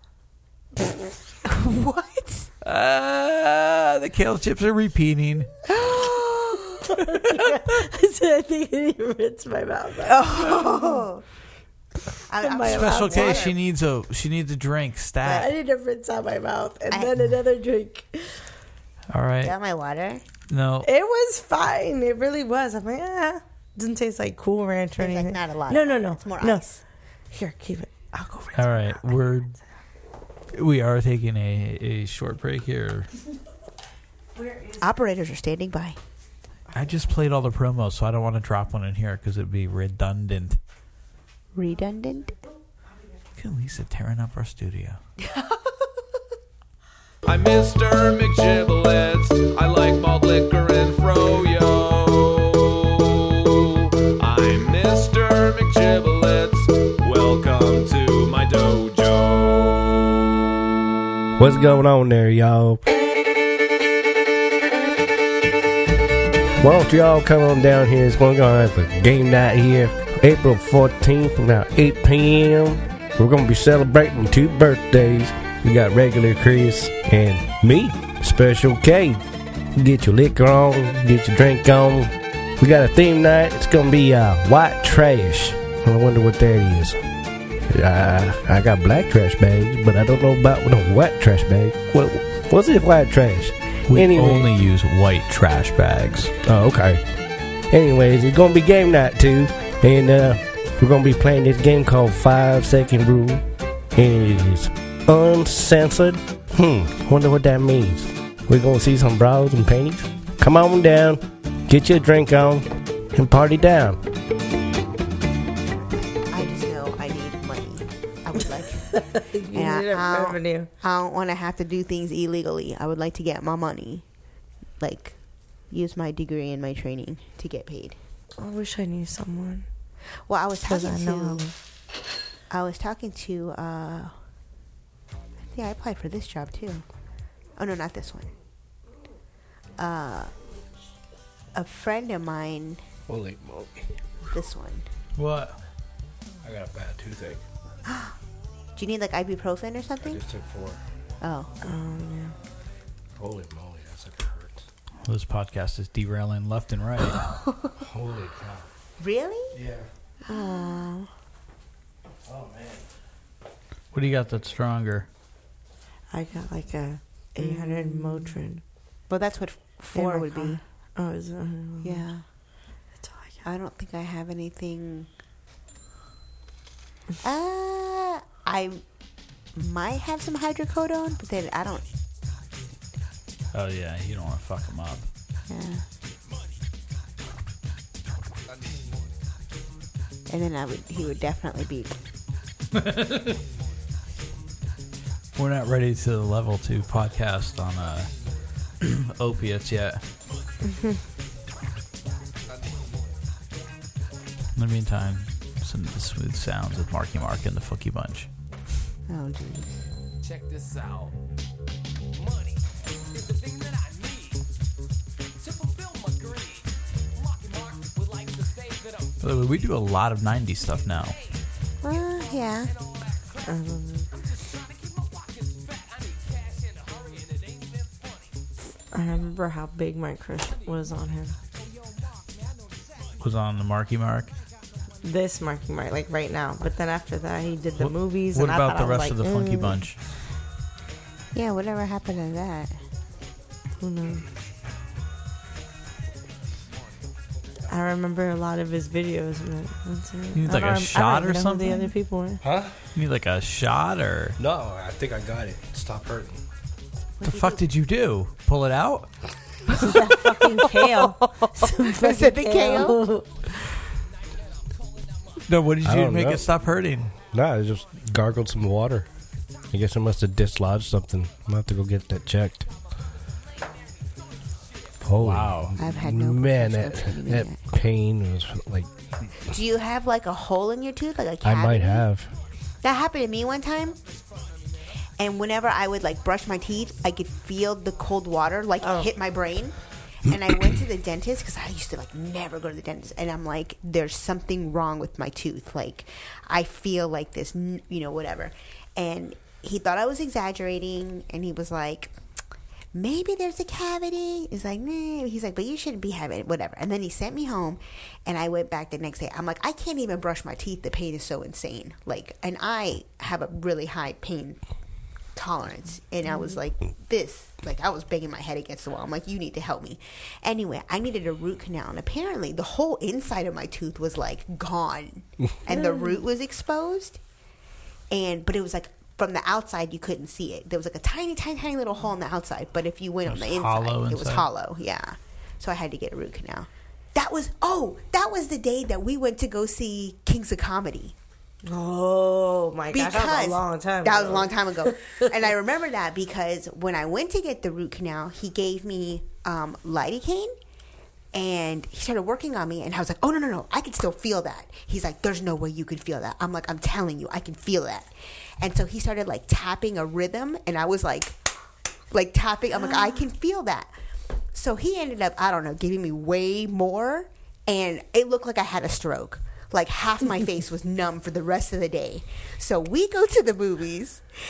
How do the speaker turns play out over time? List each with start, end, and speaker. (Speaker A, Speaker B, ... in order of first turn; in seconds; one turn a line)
Speaker A: 1.4-2.5
Speaker B: 2.6-5.5
Speaker A: 5.7-6.9
Speaker C: 7.0-11.0
Speaker A: 10.1-11.2
Speaker A: 12.3-13.6
Speaker C: 12.4-13.5
Speaker B: 12.7-15.5
Speaker C: 15.3-18.4
Speaker A: 16.9-17.1
Speaker B: 19.1-19.5
Speaker A: 19.4-20.2
Speaker B: 20.5-20.9
Speaker C: 20.8-26.6
Speaker A: 25.0-26.8
Speaker C: 27.3-29.2
Speaker B: 28.5-29.5
Speaker B: 30.5-33.1
Speaker A: 34.8-36.0
Speaker B: 36.7-40.6
Speaker A: 41.5-42.4
Speaker B: 43.4-45.0
Speaker A: 45.3-45.6
Speaker D: 47.2-60.0
Speaker E: 61.4-62.8
Speaker E: 66.6-79.2
Speaker E: 79.7-87.0
Speaker E: 87.7-94.5
Speaker B: 93.9-96.3
Speaker E: 96.4-97.0
Speaker E: 97.7-103.4
Speaker E: 103.9-114.0
Speaker A: 116.3-118.9
Speaker C: 118.9-120.7
Speaker A: 119.5-124.0
Speaker A: 124.8-128.0
Speaker C: 128.4-129.7
Speaker A: 130.3-131.5
Speaker C: 130.6-131.5
Speaker A: 132.5-134.1
Speaker A: 135.5-136.8
Speaker A: 137.6-138.3
Speaker A: 139.8-140.3
Speaker A: 141.5-142.8
Speaker E: 143.1-143.8
Speaker A: 144.3-144.8
Speaker B: 145.2-145.6
Speaker E: 146.4-147.4
Speaker A: 147.9-148.1
Speaker A: 148.8-150.2
Speaker E: 150.1-150.8
Speaker A: 151.2-151.5
Speaker C: 151.6-152.3
Speaker E: 153.2-154.6
Speaker B: 155.0-157.4
Speaker E: 157.9-158.6
Speaker A: 159.0-159.6
Speaker A: 160.2-161.1
Speaker B: 163.9-165.1
Speaker C: 166.1-168.6
Speaker A: 167.4-168.4
Speaker A: 169.1-170.6
Speaker C: 169.9-172.1
Speaker A: 171.8-172.2
Speaker C: 173.0-173.4
Speaker A: 173.4-175.1
Speaker A: 177.2-178.8
Speaker A: 179.6-181.9
Speaker B: 183.5-185.1
Speaker A: 185.5-185.8
Speaker A: 190.3-192.0
Speaker B: 192.7-193.4
Speaker B: 195.3-198.1
Speaker B: 198.8-200.0
Speaker C: 200.7-200.9
Speaker B: 204.6-208.3
Speaker A: 209.1-209.8
Speaker D: 210.2-211.1
Speaker B: 219.2-221.2
Speaker A: 221.8-222.7
Speaker C: 223.4-224.1
Speaker C: 228.9-231.3
Speaker B: 233.2-234.3
Speaker C: 235.0-239.8
Speaker B: 237.8-240.0
Speaker A: 241.3-242.8
Speaker C: 243.8-244.2
Speaker C: 247.7-252.4
Speaker B: 250.3-251.9
Speaker E: 252.4-252.7
Speaker B: 252.9-254.4
Speaker E: 254.4-256.4
Speaker A: 257.2-257.6
Speaker B: 257.2-259.1
Speaker C: 259.8-263.3
Speaker A: 259.8-263.1
Speaker B: 265.5-267.1
Speaker E: 265.8-266.4
Speaker E: 267.3-269.1
Speaker E: 269.7-272.7
Speaker E: 275.0-278.9
Speaker B: 275.2-275.8
Speaker A: 275.8-277.6
Speaker A: 279.5-282.1
Speaker E: 281.4-282.3
Speaker A: 282.8-284.0
Speaker A: 285.2-302.1
Speaker C: 288.8-289.1
Speaker A: 302.9-314.6
Speaker A: 315.4-327.2
Speaker C: 316.2-316.6
Speaker C: 325.7-326.2
Speaker A: 328.1-341.1
Speaker B: 333.2-334.4
Speaker C: 341.6-345.3
Speaker A: 342.9-350.5
Speaker A: 351.3-361.4
Speaker A: 362.1-363.9
Speaker A: 364.5-374.2